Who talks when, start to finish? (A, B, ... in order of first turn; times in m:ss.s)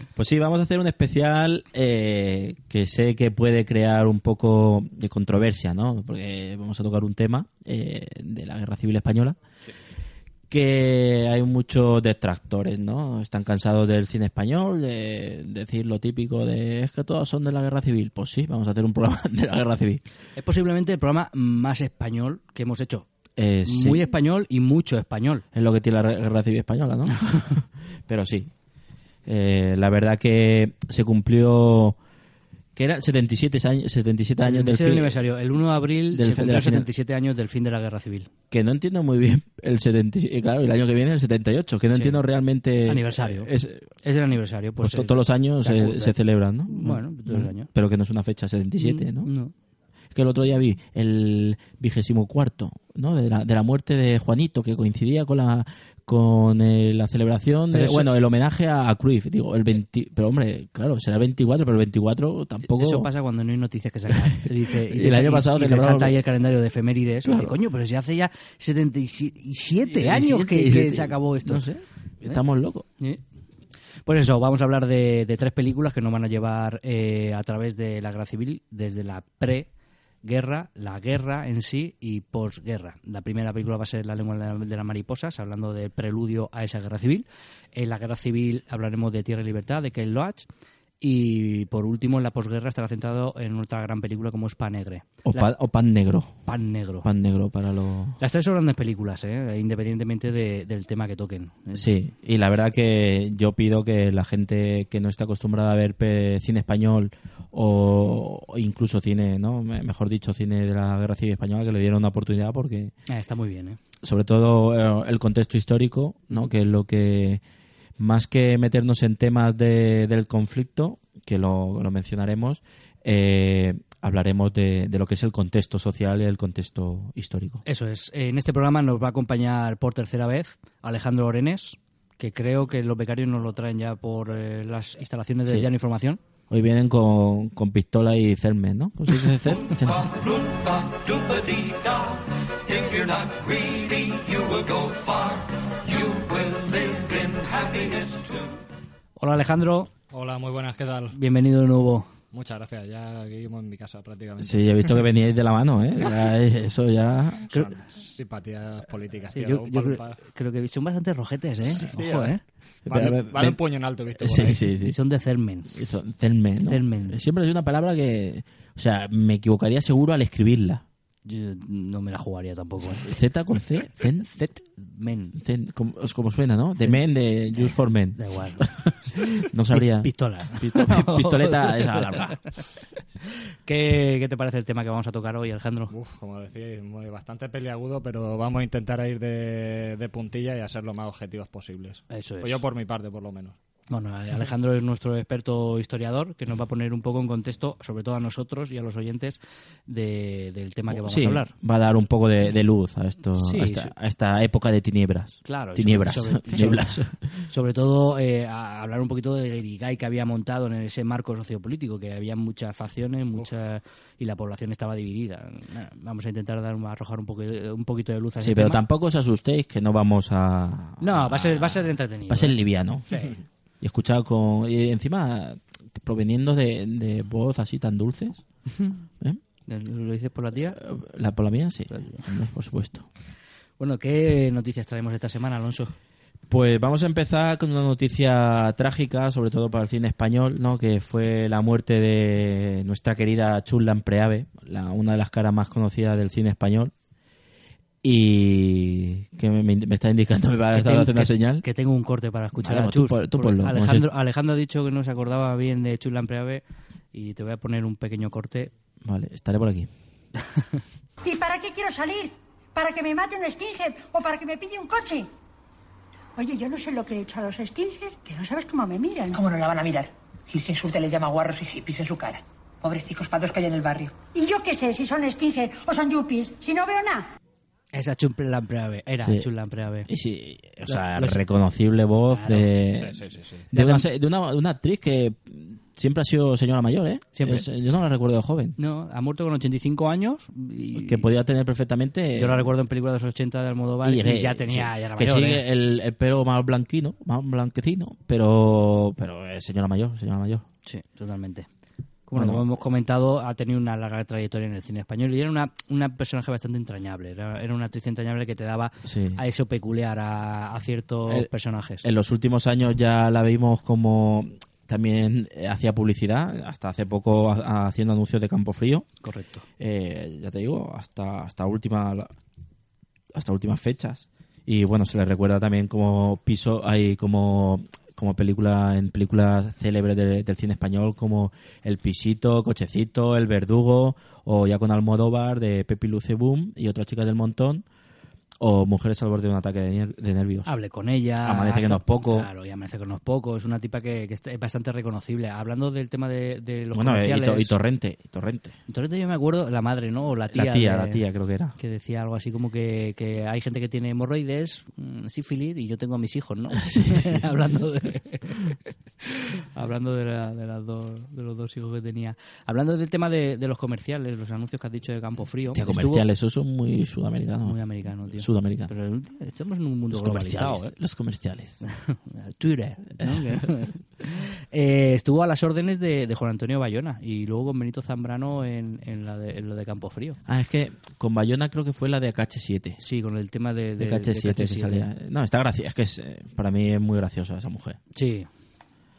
0:00.2-0:09.4 A
0:10.5-0:20.0 A
0:20.4-0:23.0 B
0:23.4-0:24.1 A
0:23.6-0:25.4 B
0:25.5-0:28.5 A
0:29.2-0:32.0 A
0:32.8-0:35.2 A
0:34.4-0:38.3 B
0:36.1-0:36.9 A
0:38.5-0:43.9 A
0:41.9-0:42.2 B
0:42.9-0:43.5 B
0:44.0-0:46.2 B
0:44.8-0:49.3 A
0:46.7-0:47.7 B
0:48.8-0:49.5 B
0:50.1-1:03.1 A
0:57.7-0:58.1 B
1:02.7-1:11.6 B
1:04.1-1:06.1 A
1:07.2-1:07.6 A
1:09.9-1:12.8 A
1:14.0-1:19.7 B
1:20.2-1:30.5 B
1:31.0-1:35.5 B
1:35.2-1:36.4 A
1:36.4-1:37.1 B
1:37.0-1:38.2 A
1:38.2-1:41.9 B
1:41.7-1:52.9 A
1:53.1-1:53.8 B
1:54.0-1:57.4 A
1:58.0-2:07.6 A
2:07.6-2:16.2 B
2:16.5-2:20.2 A
2:29.2-2:29.9 B
2:30.1-2:31.1 C
2:31.1-2:32.1 B
2:32.3-2:35.0 C
2:34.4-2:37.5 A
2:37.5-2:40.2 C
2:39.3-2:42.4 B
2:41.8-2:44.6 C
2:42.8-2:43.6 A
2:44.2-2:45.0 A
2:44.8-2:45.7 B
2:45.7-2:50.8 A
2:46.6-2:47.2 B
2:51.2-2:53.1 B
2:53.0-2:54.3 A
2:54.2-2:55.4 B
2:55.3-2:58.9 A
2:58.2-2:58.7 B
2:59.4-3:02.4 A
2:59.7-3:02.3 B
3:03.6-3:05.9 B
3:05.9-3:13.6 C
3:12.1-3:12.6 B
3:13.9-3:21.5 B
3:20.9-3:27.1 A
3:23.4-3:23.9 B
3:25.4-3:38.8 B
3:38.4-3:43.2 A
3:41.0-3:42.6 B
3:43.8-3:48.4 A
3:49.7-3:50.8 B
3:50.7-3:53.1 A
3:51.9-3:52.2 B
3:53.8-3:55.9 B
3:56.5-4:06.9 A
4:08.0-4:11.6 A
4:10.7-4:16.6 B
4:12.6-4:14.1 A
4:17.1-4:18.7 B
4:19.0-4:19.9 A
4:21.2-4:25.3 D
4:26.4-4:29.4 D
4:29.3-4:34.2 E
4:34.3-4:37.3 D
4:37.9-4:40.1 B
4:40.1-4:43.2 A
4:40.9-4:41.4 B
4:42.3-4:42.7 B
4:42.9-4:43.6 C
4:43.7-4:48.7 A
4:43.7-4:44.0 B
4:47.4-4:47.6 B
4:48.8-4:51.2 B
4:51.0-4:52.7 A
4:52.4-4:55.6 B
4:54.0-5:00.6 A
5:00.8-5:01.7 B
5:02.3-5:12.0 B
5:02.4-5:02.6 A
5:09.0-5:09.4 A
5:12.0-5:19.1 A
5:19.2-5:19.6 B
5:19.8-5:22.3 A
5:23.3-5:37.8 A
5:38.6-5:40.7 A
5:40.6-5:47.8 B
5:41.4-5:42.5 A
5:46.9-5:48.8 A
5:48.9-5:51.2 B
5:50.5-5:51.8 A
5:51.8-6:06.2 B
5:56.8-5:57.4 A
6:05.7-6:07.8 A
6:07.6-6:10.9 B
6:08.3-6:08.9 A
6:10.1-6:11.8 A
6:11.8-6:20.4 B
6:20.4-6:23.0 A
6:23.0-6:25.0 B
6:24.0-6:28.0 A
6:28.1-6:28.5 B